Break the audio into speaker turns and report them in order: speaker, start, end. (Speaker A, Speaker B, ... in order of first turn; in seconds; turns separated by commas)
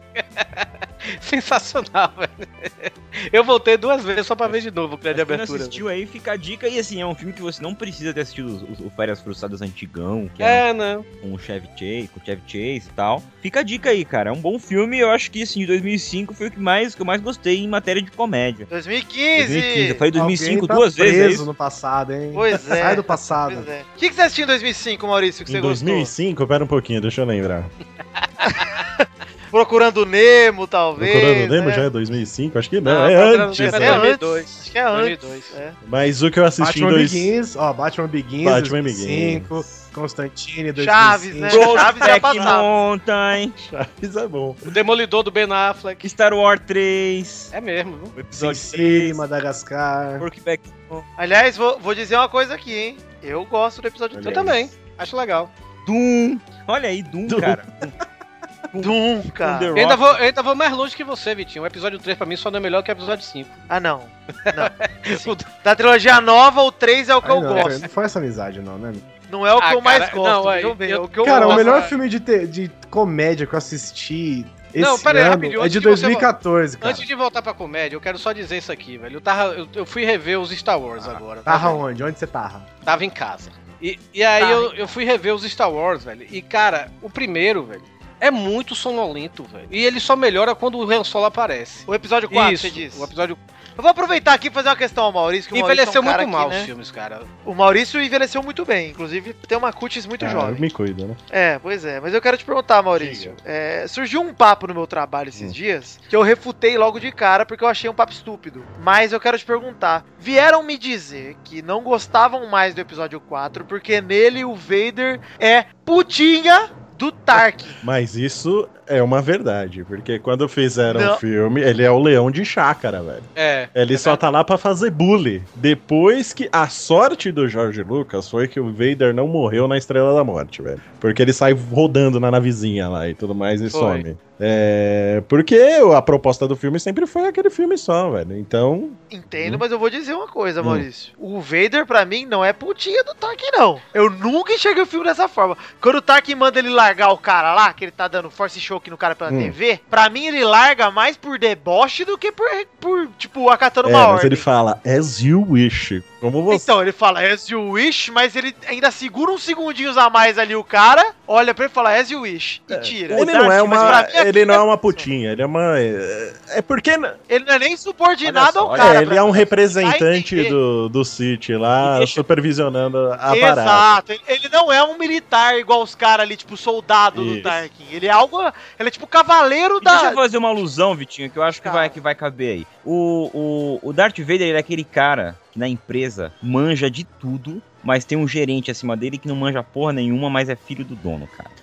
Speaker A: 0.2-5.8, Speaker B: 5.1-10.6, Speaker A: 10.4-11.1, Speaker B: 11.2-18.7, Speaker C: 18.7-20.0, Speaker B: 19.4-21.5, Speaker D: 20.1-23.7, Speaker C: 22.3-26.1, Speaker E: 25.5-27.7, Speaker C: 28.5-28.8, Speaker C: 29.5-31.9, Speaker E: 31.0-34.1, Speaker A: 32.9-35.6, Speaker C: 33.6-35.8, Speaker E: 35.9-37.3, Speaker D: 36.6-41.8, Speaker E: 38.4-39.8, Speaker C: 40.8-42.7, Speaker B: 41.5-43.5, Speaker E: 42.1-42.5, Speaker E: 43.6-44.7, Speaker A: 44.7-46.1, Speaker B: 46.0-47.5, Speaker A: 47.5-48.1, Speaker B: 48.1-49.2, Speaker D: 48.3-50.2, Speaker B: 50.2-51.0, Speaker C: 51.2-54.6, Speaker E: 54.1-54.6, Speaker A: 54.2-55.5, Speaker B: 55.8-57.9, Speaker E: 57.3-57.6, Speaker B: 58.7-60.2, Speaker C: 58.8-59.8, Speaker A: 59.8-63.5, Speaker C: 63.7-67.9, Speaker A: 64.5-65.5, Speaker D: 67.2-69.0, Speaker A: 67.5-67.9, Speaker C: 69.3-71.9, Speaker A: 69.6-71.9, Speaker D: 71.2-77.1, Speaker A: 74.8-76.3, Speaker A: 76.8-81.8, Speaker D: 81.5-82.7, Speaker A: 82.8-93.4, Speaker C: 84.4-84.9, Speaker C: 91.9-93.1, Speaker C: 93.8-96.7, Speaker A: 95.5-97.3, Speaker C: 97.5-100.7, Speaker E: 100.2-101.2, Speaker C: 101.3-117.8, Speaker E: 103.0-103.4, Speaker E: 117.8-139.6, Speaker C: 120.9-121.2, Speaker A: 123.4-124.2, Speaker A: 133.7-134.1, Speaker C: 139.1-154.5, Speaker E: 149.3-149.6, Speaker E: 153.8-156.7, Speaker C: 156.5-165.1, Speaker E: 162.7-167.2, Speaker B: 163.1-164.1, Speaker C: 167.3-170.6, Speaker B: 168.2-169.2, Speaker E: 168.7-173.9, Speaker B: 171.8-172.2, Speaker C: 173.3-180.2, Speaker E: 177.1-177.6, Speaker B: 179.8-191.5, Speaker C: 181.6-182.0